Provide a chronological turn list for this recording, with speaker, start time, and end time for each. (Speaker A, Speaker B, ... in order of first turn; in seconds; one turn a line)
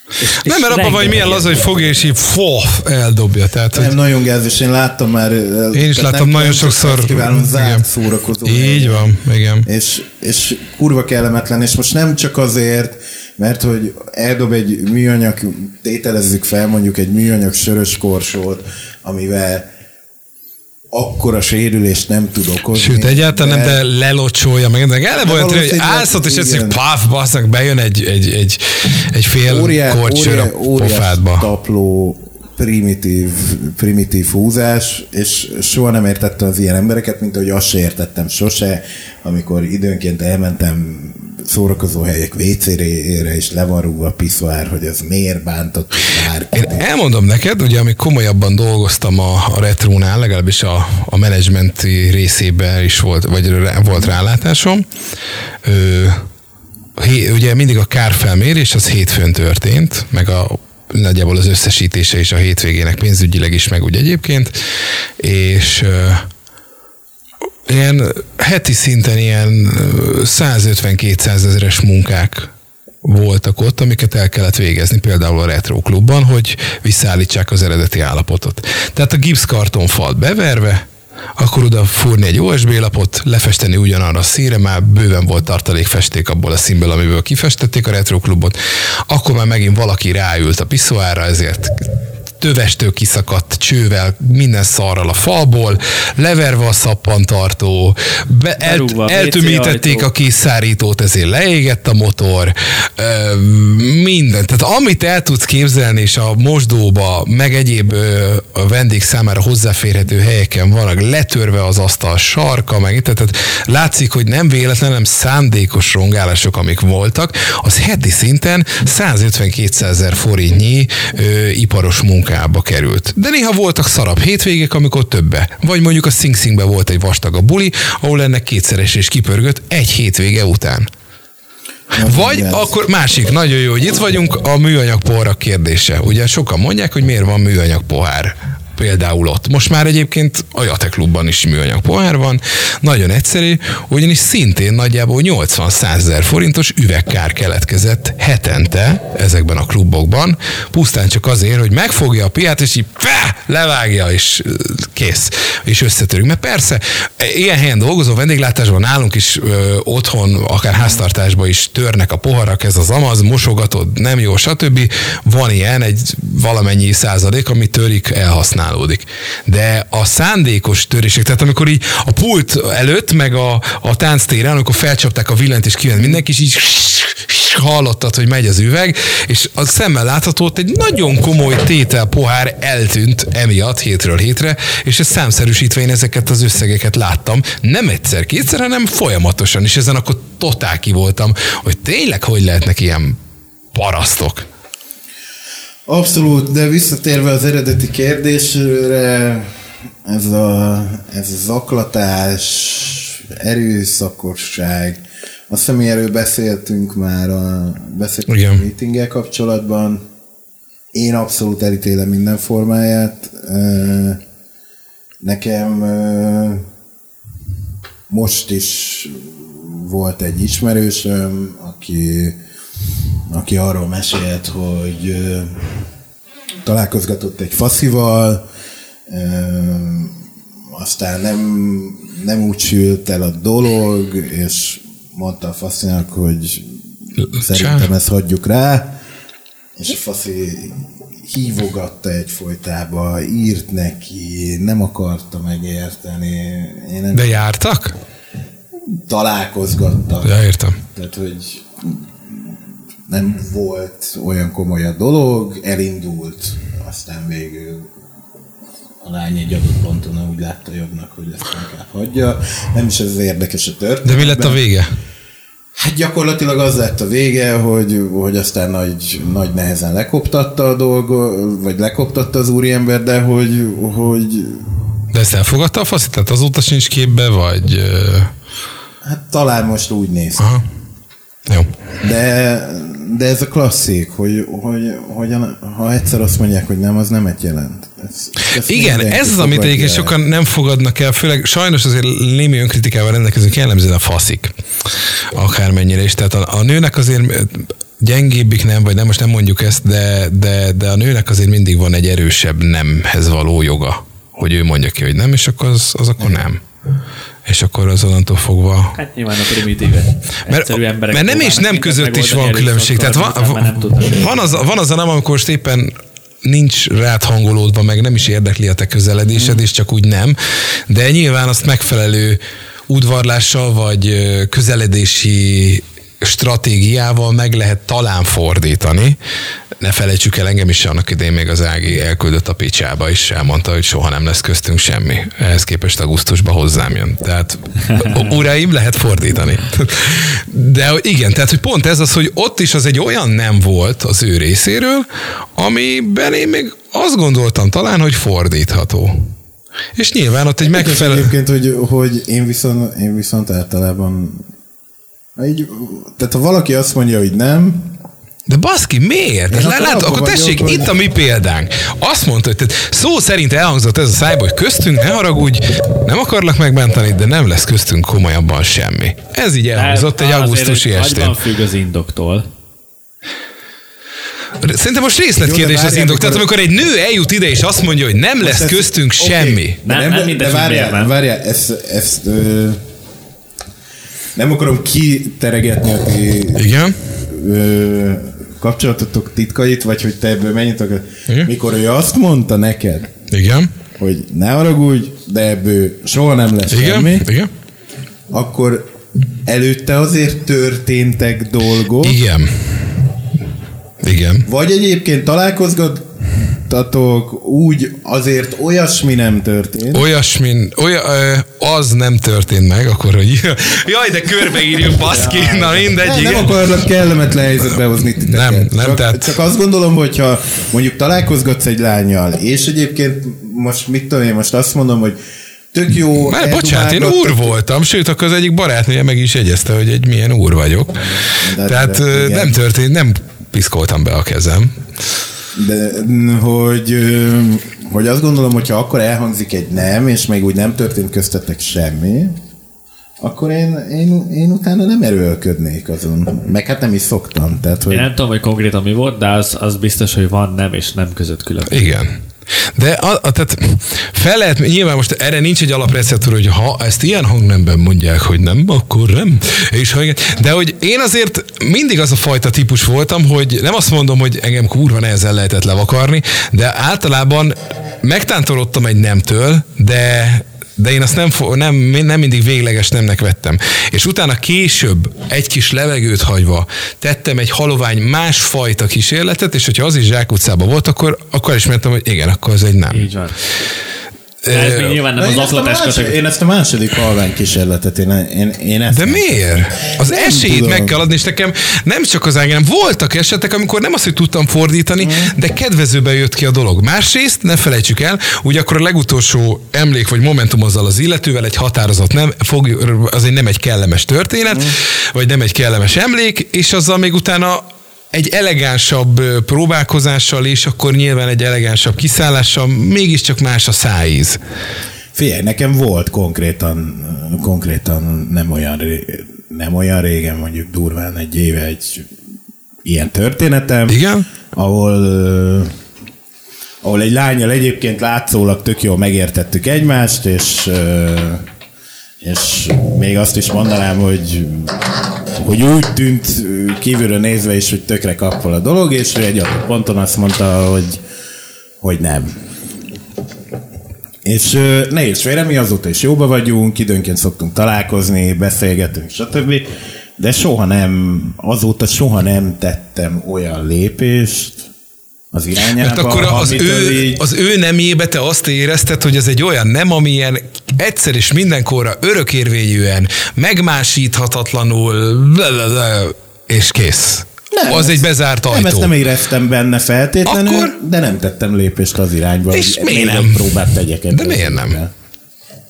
Speaker A: 0.2-1.7
Speaker B: 0.4-3.9
Speaker C: 3.7-9.2
Speaker B: 5.7-7.8
Speaker B: 8.4-9.7
Speaker C: 9.7-19.7
Speaker C: 20.9-23.8
Speaker B: 22.7-31.5
Speaker C: 25.2-26.8
Speaker C: 29.5-46.9
Speaker B: 46.6-54.9
Speaker B: 55.6-56.3
Speaker B: 57.0-64.5
Speaker B: 65.2-66.3
Speaker B: 67.7-72.5
Speaker B: 73.0-80.8
Speaker B: 81.4-88.5
Speaker B: 89.1-91.8
Speaker B: 92.4-130.9
Speaker A: 98.6-100.1
Speaker C: 131.9-132.7
Speaker B: 132.0-193.2
Speaker B: 193.7-194.5
Speaker C: 195.9-199.5
Speaker C: 200.1-210.1
Speaker B: 208.3-208.6
Speaker C: 210.9-214.2
Speaker C: 215.2-216.7
Speaker C: 218.1-222.4
Speaker C: 223.3-225.7
Speaker C: 226.6-228.4
Speaker C: 229.1-230.2
Speaker C: 230.7-238.9
Speaker B: 237.5-237.9
Speaker C: 239.8-247.3
Speaker B: 247.1-248.0
Speaker C: 249.1-257.9
Speaker B: 250.2-250.8
Speaker C: 259.0-264.6
Speaker B: 264.1-264.9
Speaker C: 265.8-274.7
Speaker B: 275.1-278.3
Speaker C: 279.0-280.5
Speaker B: 280.4-280.6
Speaker C: 282.0-290.1
Speaker B: 288.7-294.6
Speaker B: 295.3-306.6
Speaker B: 307.5-308.9
Speaker A: 308.9-314.6
Speaker B: 310.5-320.4
Speaker B: 320.9-329.2
Speaker B: 329.8-349.3
Speaker B: 350.0-351.3
Speaker C: 350.6-354.5
Speaker C: 355.4-357.9
Speaker B: 358.5-371.3
Speaker C: 359.5-360.9
Speaker A: 369.8-372.5
Speaker B: 374.6-379.8
Speaker C: 375.4-376.5
Speaker C: 378.4-382.8
Speaker A: 379.9-381.1
Speaker C: 384.4-393.1
Speaker B: 386.6-387.0
Speaker B: 393.3-393.7
Speaker C: 394.0-397.3
Speaker B: 396.7-397.5
Speaker C: 398.3-398.9
Speaker C: 399.5-402.2
Speaker B: 402.0-403.0
Speaker B: 404.0-404.5
Speaker C: 404.5-410.1
Speaker B: 409.9-416.6
Speaker C: 415.0-425.2
Speaker B: 418.2-419.4
Speaker C: 425.7-427.6
Speaker B: 426.1-434.8
Speaker C: 431.4-432.6
Speaker C: 435.6-442.4
Speaker C: 443.2-448.1
Speaker A: 447.9-451.9
Speaker B: 451.7-452.2
Speaker B: 452.8-483.1
Speaker A: 482.9-483.4
Speaker B: 484.4-485.0
Speaker A: 484.5-486.2
Speaker C: 485.1-490.9
Speaker B: 488.9-514.4
Speaker C: 495.0-495.3
Speaker C: 504.5-504.8
Speaker C: 515.1-522.1
Speaker C: 522.8-524.0
Speaker B: 523.9-524.3
Speaker C: 524.5-525.7
Speaker C: 526.8-531.5
Speaker C: 532.2-541.0
Speaker C: 541.8-542.3
Speaker C: 544.2-554.7
Speaker C: 555.3-557.2
Speaker B: 555.8-568.9
Speaker C: 567.5-574.9
Speaker B: 570.3-570.7
Speaker B: 572.5-574.8